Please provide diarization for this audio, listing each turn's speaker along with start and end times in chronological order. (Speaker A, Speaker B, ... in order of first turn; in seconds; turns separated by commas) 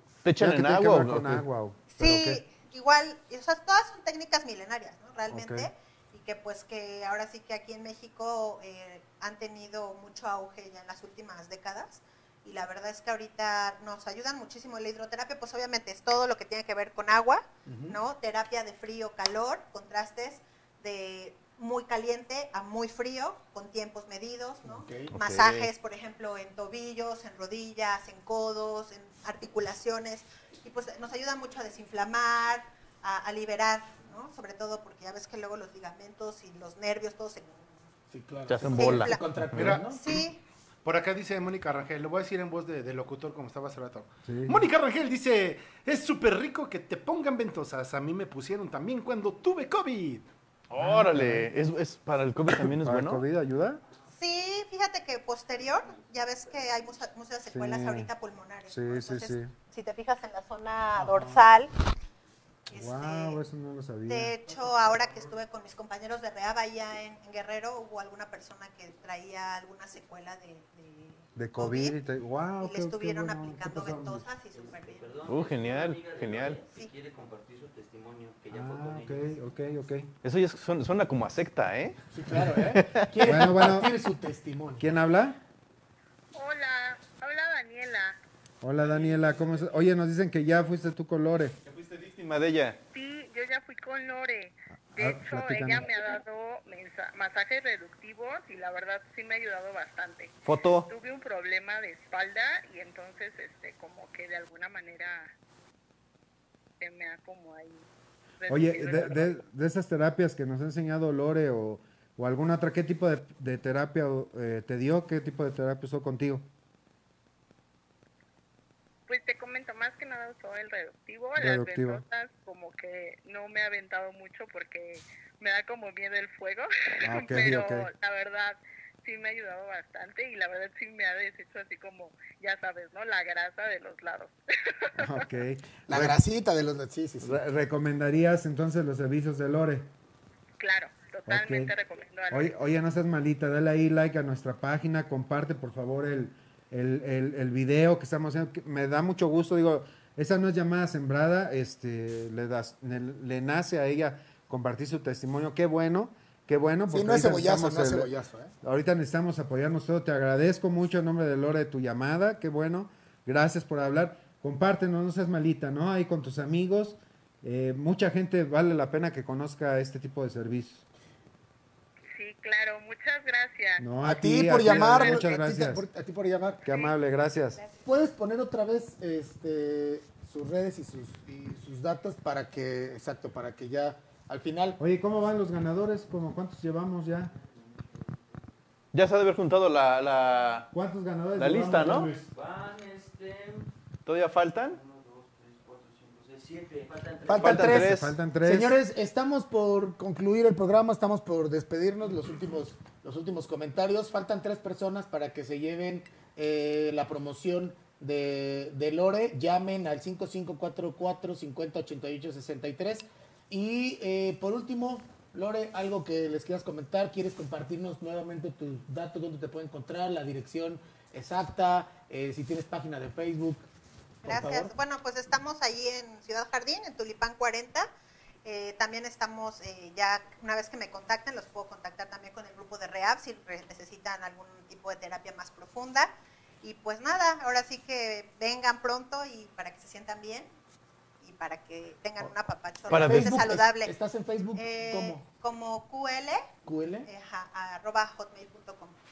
Speaker A: 0.2-1.4, Speaker B: 0.4-2.4, Speaker C: 1.9-37.9, Speaker B: 5.3-5.7, Speaker D: 17.7-18.0, Speaker D: 24.6-25.1, Speaker A: 25.1-25.7, Speaker D: 38.1-40.0, Speaker A: 38.5-39.8, Speaker C: 38.8-39.2, Speaker E: 39.5-39.9, Speaker C: 39.9-40.4, Speaker E: 40.9-50.3, Speaker B: 44.3-44.7, Speaker A: 50.7-53.2, Speaker B: 50.8-51.5, Speaker B: 52.6-53.8, Speaker C: 54.2-61.7, Speaker B: 57.5-58.1, Speaker B: 58.7-59.5, Speaker B: 61.0-61.4, Speaker C: 62.7-63.4, Speaker B: 62.7-64.3, Speaker C: 64.1-72.0, Speaker B: 71.4-74.3, Speaker C: 72.6-75.1, Speaker F: 74.5-79.4, Speaker A: 75.3-76.6, Speaker B: 78.5-80.1, Speaker A: 80.2-82.0, Speaker D: 82.1-84.9, Speaker A: 82.6-83.4, Speaker B: 83.2-83.9, Speaker B: 84.8-85.4, Speaker G: 86.3-88.2, Speaker B: 88.6-91.6, Speaker A: 91.7-92.8, Speaker G: 92.9-100.4, Speaker B: 95.0-96.0, Speaker A: 100.5-100.9, Speaker G: 100.9-105.3, Speaker G: 106.8-107.8, Speaker G: 108.4-109.4, Speaker B: 108.5-116.5, Speaker G: 119.1-135.3, Speaker B: 121.4-122.0, Speaker B: 127.0-127.9, Speaker B: 135.0-136.2, Speaker D: 135.9-137.4, Speaker B: 137.2-139.9, Speaker G: 140.6-142.6, Speaker B: 141.3-141.7, Speaker B: 142.3-158.1, Speaker D: 156.9-158.5, Speaker B: 158.6-170.8, Speaker G: 172.1-173.9, Speaker B: 173.8-175.8, Speaker D: 174.0-176.6, Speaker B: 176.7-177.6, Speaker C: 177.6-177.8, Speaker D: 177.8-184.8, Speaker B: 184.8-187.3, Speaker F: 187.3-188.2, Speaker A: 188.9-190.7, Speaker B: 190.7-192.3, Speaker A: 191.4-192.1, Speaker F: 192.2-193.7, Speaker A: 194.1-194.8, Speaker F: 194.6-197.8, Speaker D: 197.3-223.6, Speaker A: 197.3-198.2, Speaker B: 197.7-198.8, Speaker C: 224.2-227.9, Speaker D: 224.2-224.7, Speaker C: 228.4-240.5, Speaker C: 241.2-243.9, Speaker A: 242.9-243.4, Speaker D: 242.9-245.2, Speaker C: 244.6-246.5, Speaker D: 246.7-247.1, Speaker C: 247.1-249.0